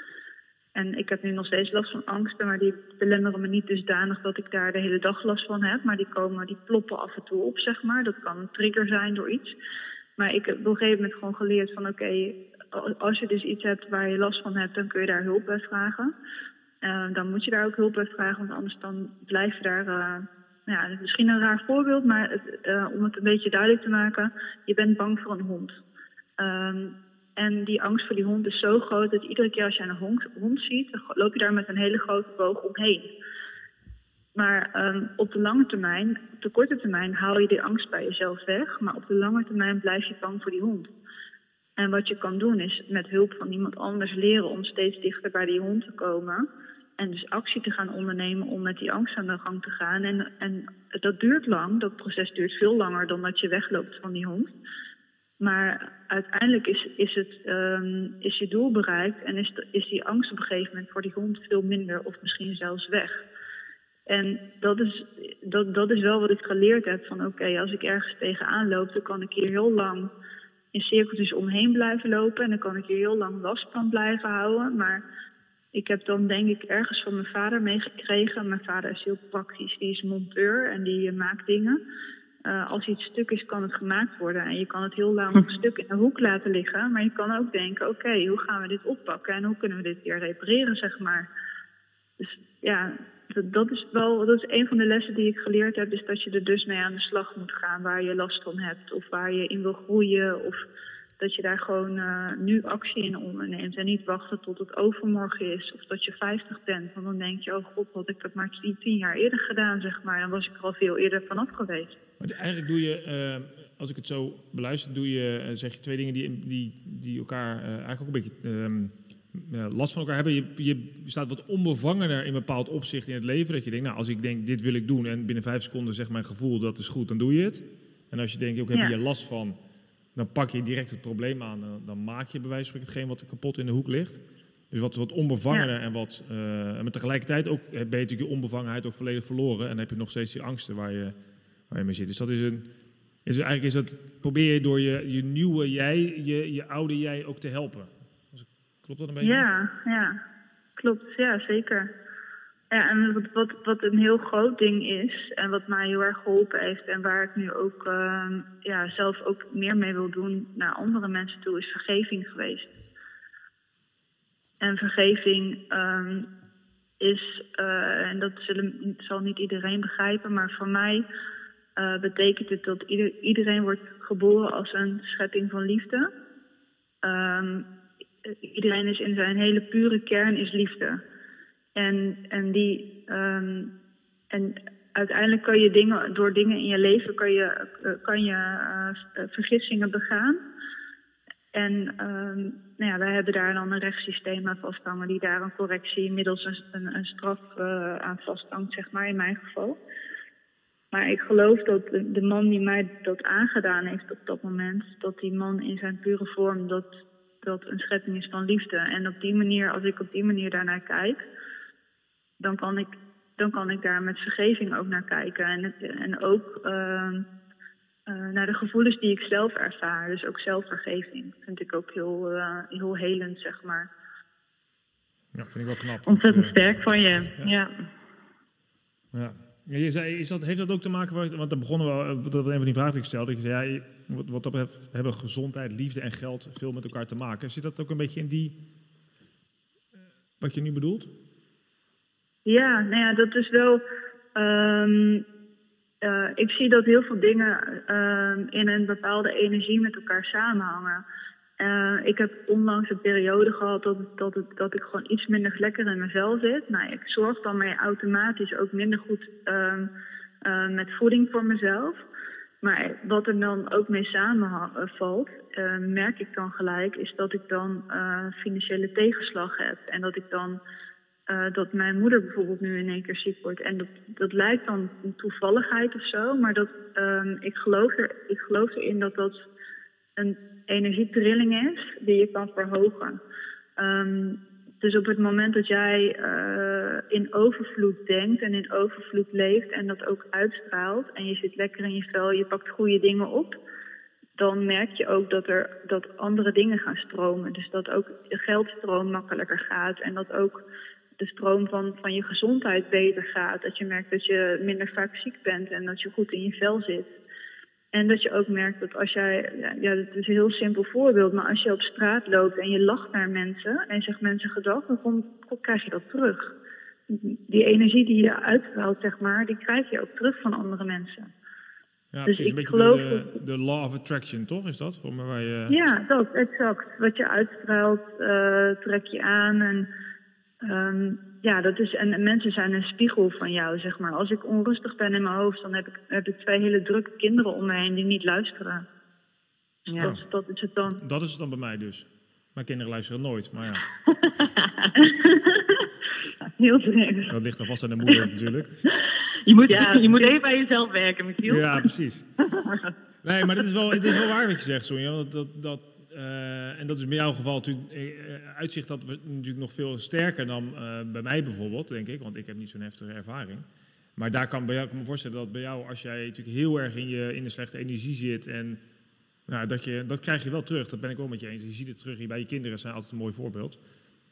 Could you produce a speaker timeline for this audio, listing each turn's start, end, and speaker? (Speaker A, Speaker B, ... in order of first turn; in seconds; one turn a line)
Speaker A: 0.8-9.5
Speaker A: 10.2-16.1
Speaker A: 16.8-25.8
Speaker A: 26.4-33.1
Speaker A: 34.4-40.9
Speaker A: 41.8-46.5
Speaker A: 47.0-54.5
Speaker A: 55.4-63.2
Speaker A: 64.1-70.1
Speaker A: 70.7-75.0
Speaker A: 75.7-81.8
Speaker A: 82.5-91.3
Speaker A: 92.2-100.6
Speaker A: 101.2-112.0
Speaker B: 112.2-129.6
Speaker B: 130.2-141.2
Speaker B: 141.7-142.7
Speaker B: 143.2-149.5
Speaker A: 149.2-150.2
Speaker A: 150.8-151.9
Speaker A: 152.7-162.7
Speaker A: 164.6-166.3
Speaker A: 167.0-171.1
Speaker A: 171.8-176.1
Speaker A: 177.0-177.7
Speaker A: 178.2-181.0
Speaker A: 181.8-183.7
Speaker A: 184.3-190.4
Speaker A: 191.5-199.8
Speaker A: 200.9-206.9
Speaker A: 207.4-211.2
Speaker A: 212.4-217.3
Speaker A: 218.1-223.9
Speaker B: 225.3-226.6
Speaker C: 226.1-227.7
Speaker B: 229.1-238.6
Speaker B: 240.4-241.1
Speaker A: 242.4-243.8
Speaker A: 244.3-245.2
Speaker A: 246.0-251.0
Speaker A: 251.6-259.9
Speaker A: 260.4-262.0
Speaker A: 262.6-270.6
Speaker A: 271.3-279.5
Speaker A: 280.2-283.2
Speaker A: 283.8-293.6
Speaker A: 294.4-300.6
Speaker A: 301.2-307.1
Speaker A: 307.9-316.5
Speaker A: 317.1-321.3
Speaker B: 322.1-325.8
Speaker A: 322.3-323.3
Speaker A: 325.7-329.9
Speaker A: 330.6-338.9
Speaker C: 339.9-340.1
Speaker A: 339.9-341.0
Speaker B: 340.9-343.9
Speaker C: 344.2-344.9
Speaker A: 345.0-345.9
Speaker A: 346.6-347.3
Speaker B: 347.3-348.9
Speaker C: 349.4-351.9
Speaker A: 349.7-350.3
Speaker B: 351.4-352.3
Speaker B: 353.2-363.7
Speaker B: 364.2-368.8
Speaker B: 369.5-373.8